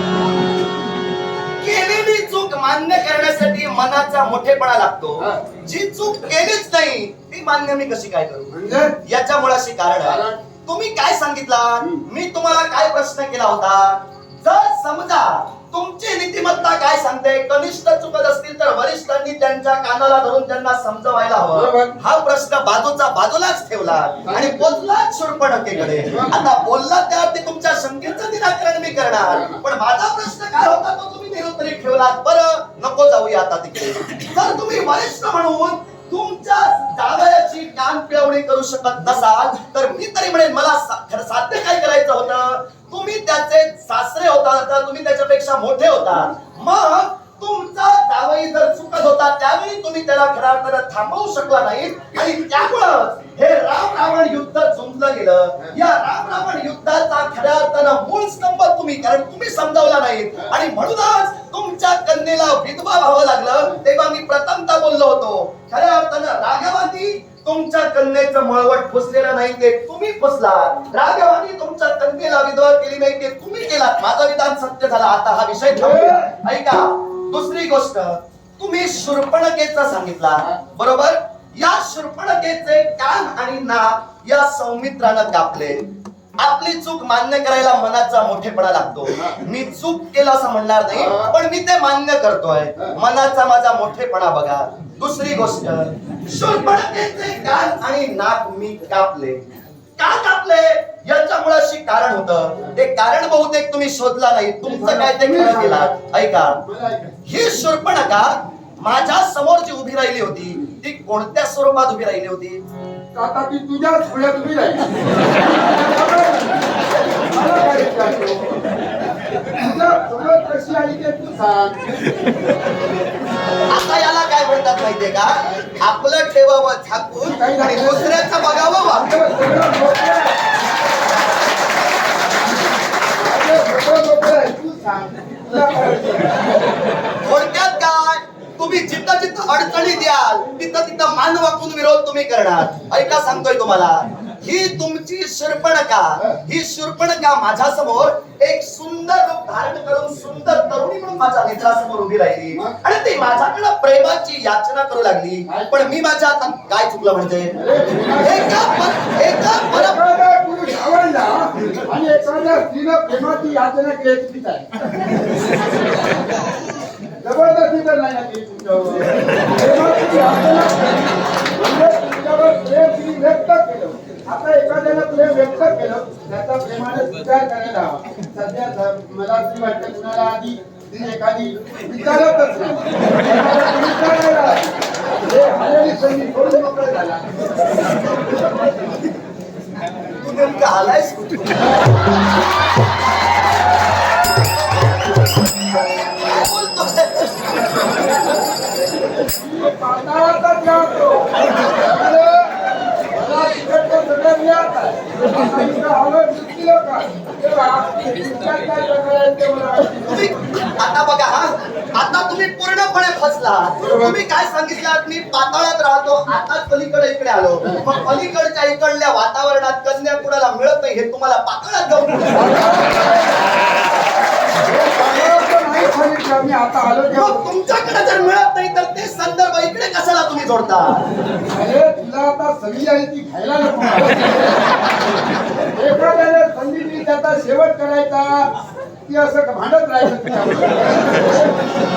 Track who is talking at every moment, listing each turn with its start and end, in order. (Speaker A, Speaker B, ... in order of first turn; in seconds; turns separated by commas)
Speaker A: 1.6-8.5, Speaker B: 5.2-5.4, Speaker B: 8.5-8.9, Speaker A: 9.0-85.8, Speaker B: 10.0-10.4, Speaker B: 11.8-12.0, Speaker B: 21.5-21.9, Speaker B: 24.2-24.7, Speaker B: 26.1-26.4, Speaker B: 29.2-29.6, Speaker B: 75.7-76.3, Speaker A: 86.4-99.4, Speaker B: 90.9-91.3, Speaker A: 100.0-106.6, Speaker B: 104.6-105.9, Speaker B: 106.6-107.1, Speaker A: 107.3-112.6, Speaker B: 113.1-114.9, Speaker B: 115.4-116.6, Speaker B: 117.3-118.4, Speaker B: 119.5-122.0, Speaker A: 123.7-129.1, Speaker B: 127.2-128.1, Speaker B: 128.9-130.4, Speaker B: 133.2-136.4, Speaker A: 137.2-157.5, Speaker B: 152.5-152.8, Speaker B: 155.5-155.8, Speaker B: 157.6-158.6, Speaker A: 158.2-160.0, Speaker B: 159.7-164.7, Speaker B: 167.2-184.7, Speaker B: 185.2-187.3, Speaker A: 190.2-191.7, Speaker A: 195.7-197.4, Speaker B: 199.3-202.5, Speaker B: 203.1-210.3, Speaker A: 210.1-223.0, Speaker B: 213.8-214.2, Speaker B: 222.3-223.4, Speaker B: 224.6-227.4, Speaker A: 227.1-231.0, Speaker B: 231.5-234.6, Speaker B: 235.8-238.5, Speaker B: 239.1-241.5